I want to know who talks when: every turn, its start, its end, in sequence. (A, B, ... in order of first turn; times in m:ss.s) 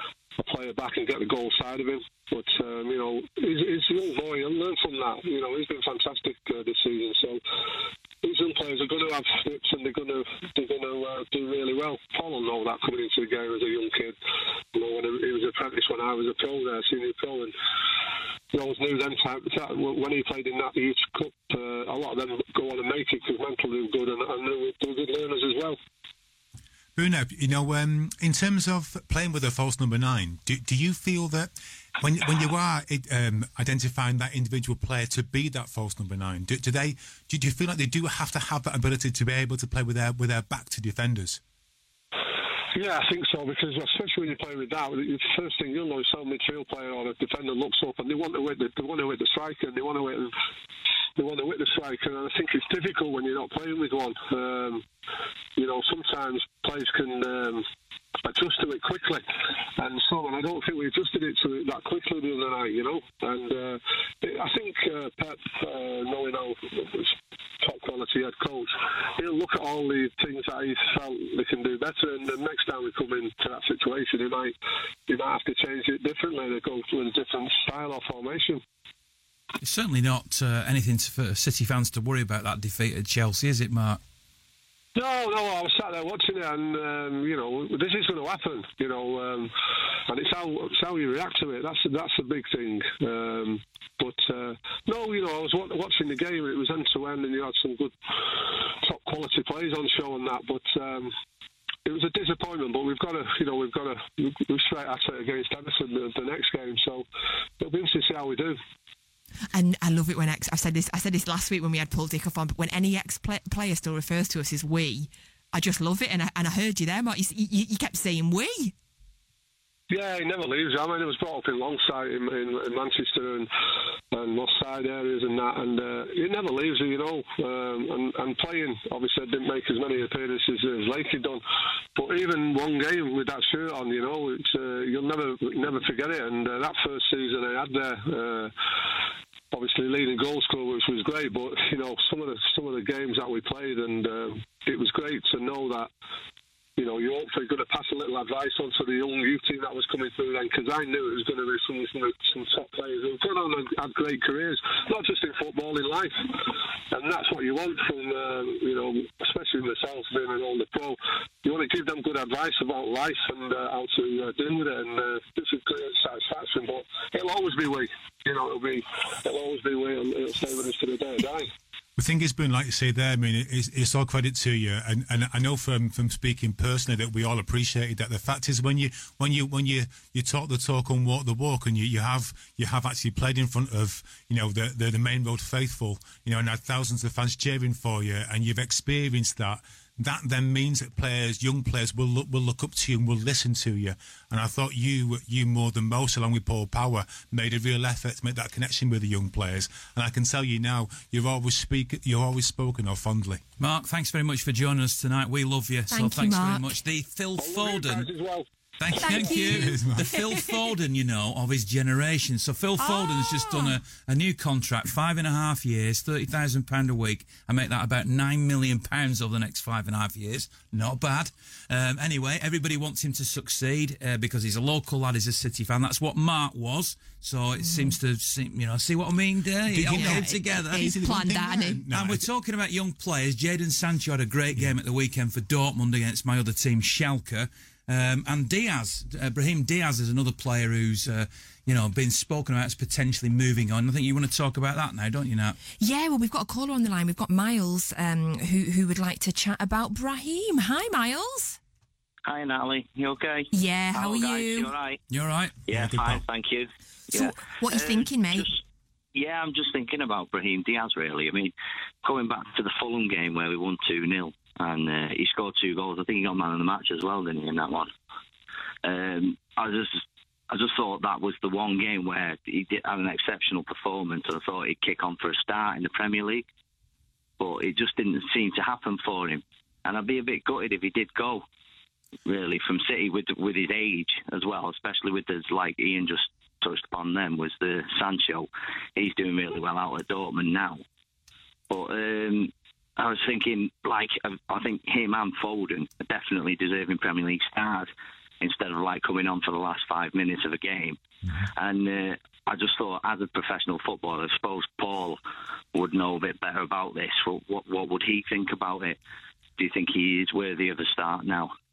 0:00.4-0:07.4 A
0:08.2-0:14.2 A
0:14.7-0:17.5 A
0:18.5-0:25.8 A
0:27.0-0:41.4 B
0:42.7-0:50.3 A
0:51.2-0:54.9 A
0:55.6-0:57.6 A
0:58.2-0:59.2 A
0:59.8-1:14.6 A
1:15.1-1:18.6 A
1:19.6-1:24.0 C
1:25.0-1:29.5 A
1:30.1-1:41.1 A
1:41.8-1:47.1 A
1:47.6-1:48.6 A
1:49.5-1:58.7 D
1:59.9-2:03.5 A
2:04.1-2:11.4 A
2:12.0-2:18.5 A
2:19.5-2:25.9 A
2:26.8-2:51.5 A
2:52.0-3:23.4 B
3:23.6-3:28.1 C
3:25.9-3:26.7 D
3:27.4-3:28.4 A
3:28.8-3:50.9 C
3:29.0-3:30.6 D
3:29.1-3:30.1 B
3:32.8-3:33.8 D
3:47.6-3:48.0 D
3:49.7-3:52.3 B
3:49.9-3:51.8 D
3:51.9-4:05.6 C
4:05.8-4:11.6 D
4:12.3-4:15.0 E
4:13.5-4:14.7 D
4:15.1-4:16.0 C
4:15.7-4:18.6 E
4:17.1-4:18.5 D
4:19.1-4:21.5 E
4:22.0-4:27.9 E
4:28.8-4:36.4 E
4:37.4-4:41.4 E
4:42.3-4:50.8 E
4:51.7-4:57.9 E
4:58.4-5:05.2 E
5:05.7-5:09.0 E
5:09.6-5:11.5 E